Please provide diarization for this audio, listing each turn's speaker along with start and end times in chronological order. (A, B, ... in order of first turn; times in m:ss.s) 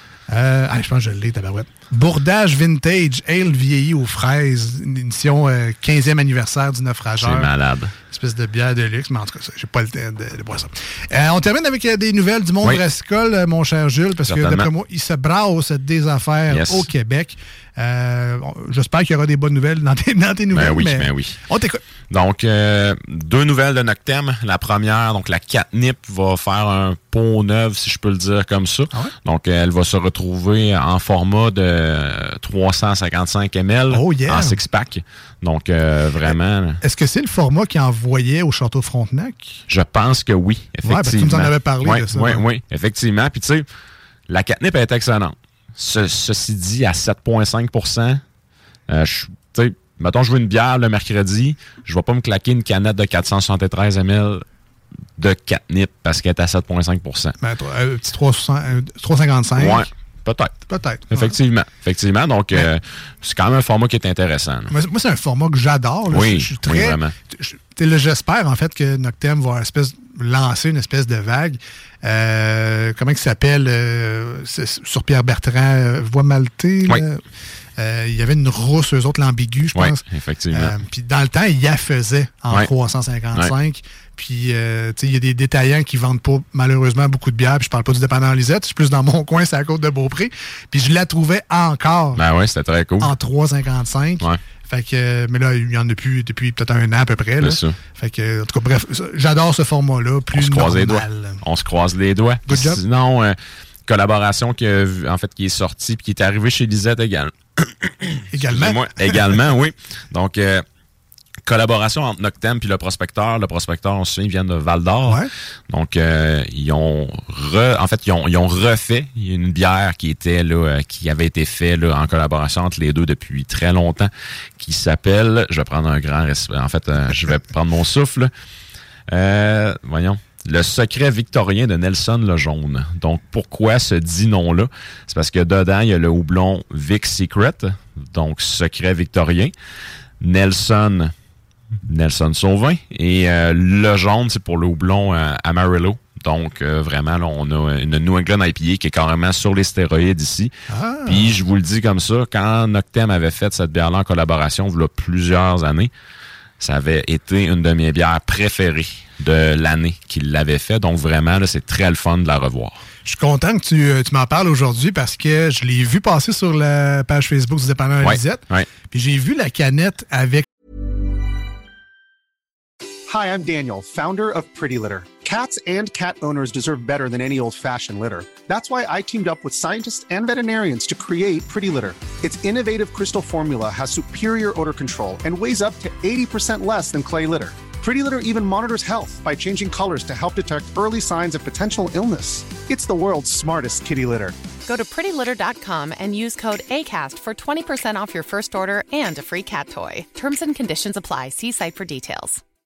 0:00.3-0:07.5 A
0:07.2-0:07.9 B
0:08.1-0:21.8 A
0:14.2-0:14.7 B
0:16.5-0:16.8 B
0:20.5-0:21.4 B
0:22.1-0:36.8 B
0:33.9-0:34.6 A
0:36.8-0:39.6 A
0:39.7-0:43.6 B
0:40.8-0:42.4 A
0:44.3-0:48.2 B
0:48.9-0:54.4 B
0:55.2-0:57.3 B
0:57.4-0:59.9 A
0:59.6-1:00.5 B
1:00.7-1:01.4 A
1:01.1-1:04.7 B
1:04.7-1:17.2 A
1:06.1-1:07.1 B
1:17.8-1:32.2 A
1:19.7-1:20.8 B
1:32.2-1:33.1 B
1:33.0-1:41.4 A
1:37.4-1:37.7 B
1:40.3-1:43.4 B
1:42.4-1:42.8 A
1:43.9-1:50.6 B
1:48.3-1:49.3 A
1:51.4-2:08.3 B
2:09.1-2:19.5 B
2:20.2-2:21.1 B
2:21.9-2:30.5 B
2:30.7-2:31.3 A
2:31.0-2:35.9 B
2:36.6-2:42.8 B
2:43.0-2:50.4 A
2:48.0-2:48.7 B
2:53.1-3:14.3 C
3:14.7-3:22.4 D